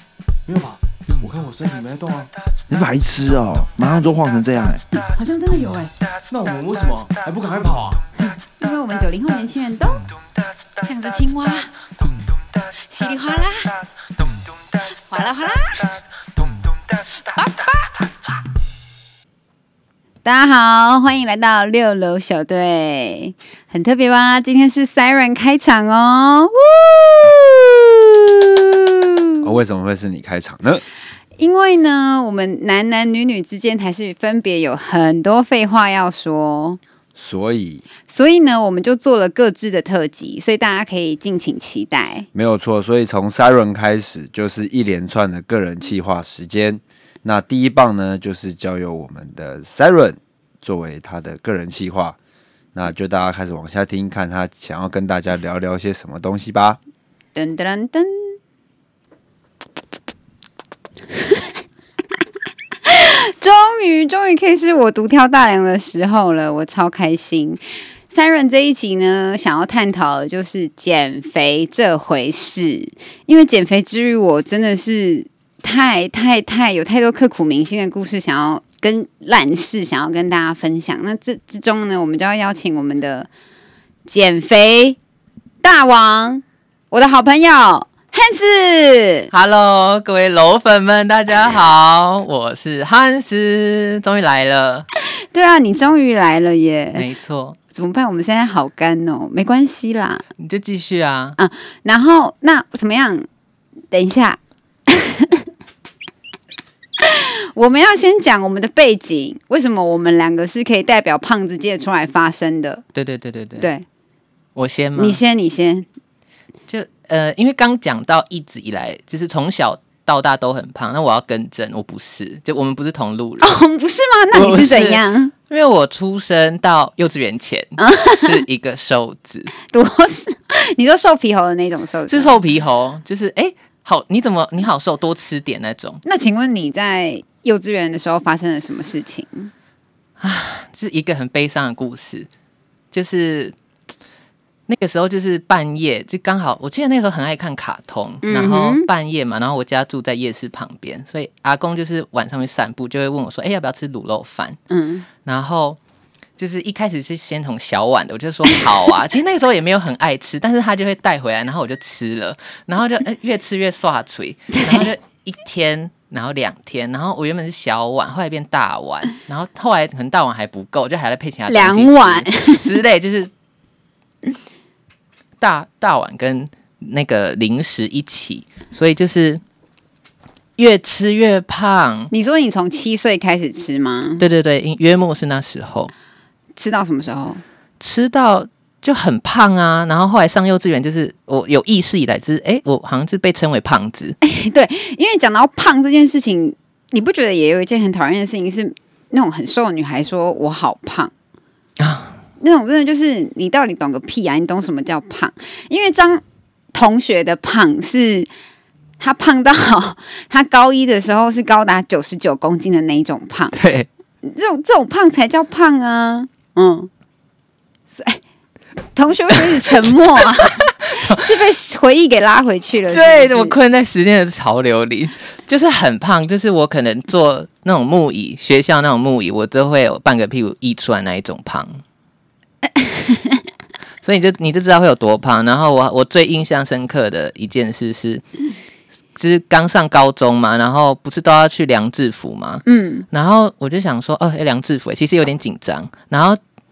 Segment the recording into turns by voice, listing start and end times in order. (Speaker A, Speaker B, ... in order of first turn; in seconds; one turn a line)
Speaker A: 0.5-2.3
Speaker B: 2.7-4.8
Speaker C: 5.1-5.9
Speaker A: 6.3-8.0
Speaker C: 8.2-10.0
Speaker C: 10.8-11.7
Speaker C: 12.9-13.7
Speaker C: 15.1-15.9
Speaker C: 17.3-18.0
Speaker C: 20.2-28.9
Speaker D: 29.4-30.8
Speaker C: 31.4-36.8
Speaker D: 37.1-37.8
Speaker C: 38.1-42.3
Speaker D: 42.3-52.1
Speaker D: 52.7-56.8
Speaker C: 57.4-58.3
Speaker C: 62.8-83.3
Speaker C: 84.0-85.0
Speaker C: 85.6-89.3
Speaker E: 89.3-94.9
Speaker C: 95.0-97.0
Speaker E: 96.9-97.6
Speaker C: 97.7-100.2
Speaker E: 100.4-101.4
Speaker C: 101.4-103.3
Speaker C: 103.9-105.5
Speaker C: 107.0-112.8
Speaker E: 112.9-113.7
Speaker C: 113.6-113.8
Speaker E: 114.5-115.2
Speaker C: 115.0-115.8
Speaker E: 116.7-123.5
Speaker C: 123.4-125.3
Speaker E: 124.3-129.5
Speaker C: 127.8-128.4
Speaker C: 129.7-132.4
Speaker E: 132.1-136.0
Speaker C: 136.0-139.5
Speaker E: 140.2-142.3
Speaker E: 142.9-143.5
Speaker E: 144.7-154.6
Speaker C: 148.2-148.9
Speaker C: 154.7-155.1
Speaker E: 155.2-155.8
Speaker E: 156.4-173.3
Speaker C: 164.5-164.9
Speaker C: 171.5-172.7
Speaker E: 175.4-179.4
Speaker E: 180.6-182.1
Speaker C: 182.1-184.2
Speaker E: 184.2-185.9
Speaker C: 186.6-187.4
Speaker E: 187.8-194.2
Speaker C: 194.2-201.1
Speaker E: 201.8-202.1
Speaker C: 202.4-206.2
Speaker C: 206.7-208.3
Speaker C: 209.0-213.6
Speaker E: 213.5-213.9
Speaker C: 214.2-216.9
Speaker C: 217.9-218.2
Speaker C: 218.9-223.5
Speaker E: 220.4-221.2
Speaker E: 222.9-231.8
Speaker C: 232.7-233.4
Speaker E: 234.0-238.2
Speaker E: 239.2-246.4
Speaker C: 242.7-243.0